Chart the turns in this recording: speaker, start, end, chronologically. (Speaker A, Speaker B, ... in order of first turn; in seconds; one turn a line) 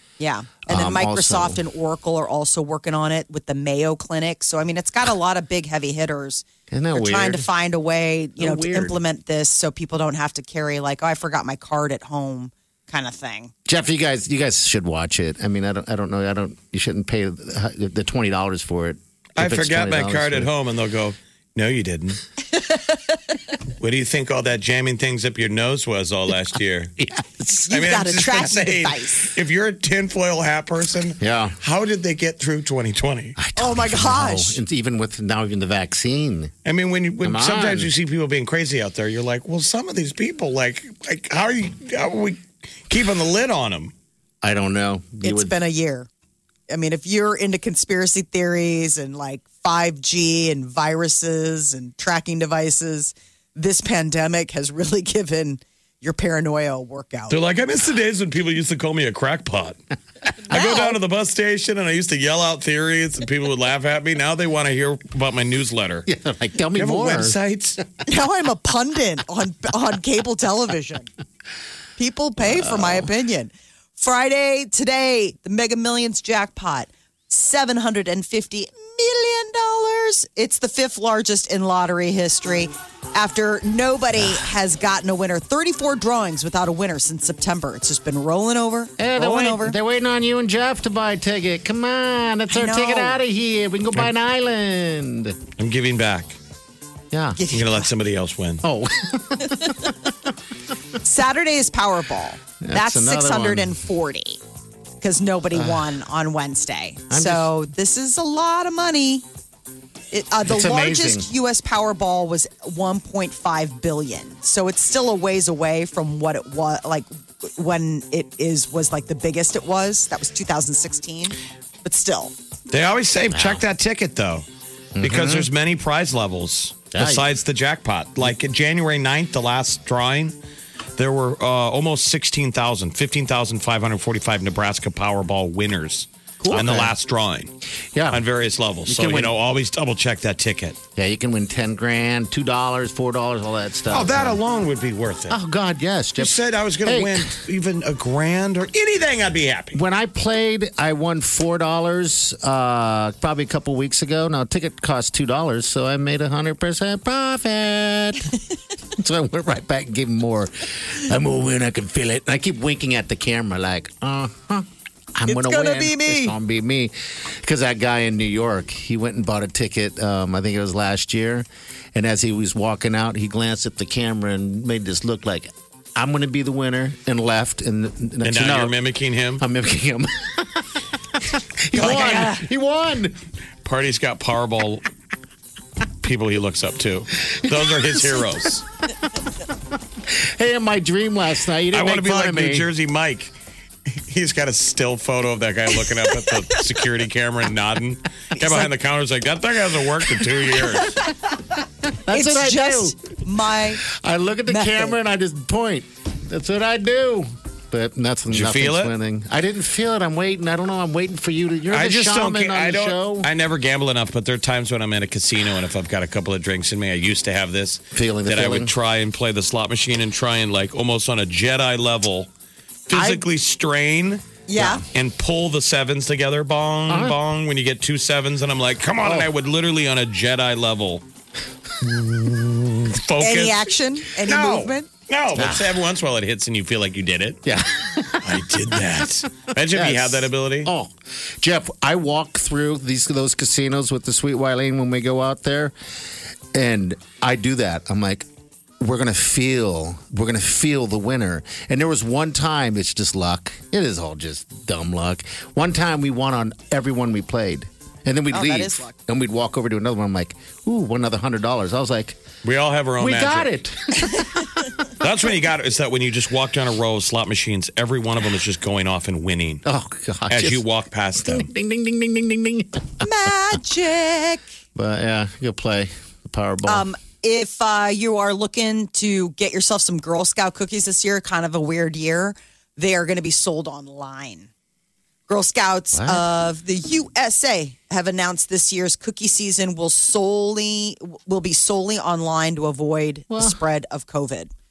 Speaker A: 0.2-13.5
Speaker B: 0.7-1.6
Speaker B: 6.7-7.5
Speaker B: 8.4-9.0
Speaker B: 13.7-20.5
Speaker C: 19.4-22.2
Speaker C: 23.8-26.9
Speaker B: 27.0-27.6
Speaker A: 27.6-29.3
Speaker C: 27.7-33.4
Speaker B: 31.2-31.6
Speaker B: 33.4-36.5
Speaker A: 33.6-34.6
Speaker C: 36.6-43.9
Speaker B: 37.2-37.9
Speaker B: 44.4-45.5
Speaker A: 45.2-46.1
Speaker A: 46.7-57.4
Speaker C: 57.3-59.8
Speaker C: 60.5-66.1
Speaker A: 60.5-61.0
Speaker B: 66.1-67.4
Speaker C: 66.8-67.8
Speaker A: 68.1-71.1
Speaker A: 72.0-89.8
Speaker B: 72.5-73.1
Speaker B: 89.0-95.4
Speaker A: 92.5-93.2
Speaker C: 95.6-96.4
Speaker B: 97.1-97.4
Speaker A: 97.4-97.9
Speaker C: 97.5-98.6
Speaker B: 98.6-99.9
Speaker A: 101.0-104.4
Speaker B: 102.6-103.8
Speaker A: 105.0-109.2
Speaker B: 105.5-106.0
Speaker B: 107.1-107.5
Speaker A: 110.1-122.3
Speaker B: 110.5-111.3
Speaker C: 122.7-124.5
Speaker B: 123.3-123.6
Speaker B: 125.0-125.5
Speaker C: 125.0-130.4
Speaker B: 126.9-127.3
Speaker C: 131.0-137.5
Speaker B: 136.4-136.9
Speaker B: 137.9-138.2
Speaker C: 138.1-140.8
Speaker B: 138.9-139.3
Speaker B: 141.0-144.4
Speaker C: 143.9-145.4
Speaker B: 145.3-147.4
Speaker C: 146.2-149.8
Speaker B: 149.7-158.4
Speaker B: 158.9-178.8
Speaker A: 165.3-166.3
Speaker C: 178.2-179.4
Speaker B: 179.4-180.7
Speaker B: 181.2-183.2
Speaker C: 181.8-182.4
Speaker C: 183.6-184.8
Speaker C: 186.0-188.7
Speaker B: 187.4-188.2
Speaker B: 190.0-192.7
Speaker C: 191.7-193.3
Speaker C: 193.9-201.0
Speaker B: 202.1-203.0
Speaker A: 202.1-203.8
Speaker B: 203.8-213.3
Speaker A: 204.5-205.0
Speaker C: 208.3-208.9
Speaker C: 211.7-222.3
Speaker B: 217.9-218.7
Speaker C: 222.9-224.2
Speaker B: 222.9-223.2
Speaker A: 224.5-224.8
Speaker C: 224.9-231.0
Speaker B: 226.9-227.2
Speaker B: 229.0-229.3
Speaker C: 231.8-237.4
Speaker A: 233.2-234.9
Speaker B: 235.3-235.7
Speaker B: 237.4-238.8
Speaker C: 238.2-240.7
Speaker B: 239.7-245.7
Speaker B: 246.5-248.3
Speaker B: 248.8-262.2
Speaker A: 258.3-258.9
Speaker C: 262.4-263.5
Speaker B: 263.0-264.5
Speaker C: 265.0-269.6
Speaker B: 269.6-270.6
Speaker C: 270.3-271.5
Speaker B: 271.2-273.1
Speaker A: 273.0-274.4
Speaker B: 274.8-276.9
Speaker A: 276.7-284.5
Speaker A: 285.3-294.5
Speaker B: 285.9-286.3
Speaker B: 293.3-293.6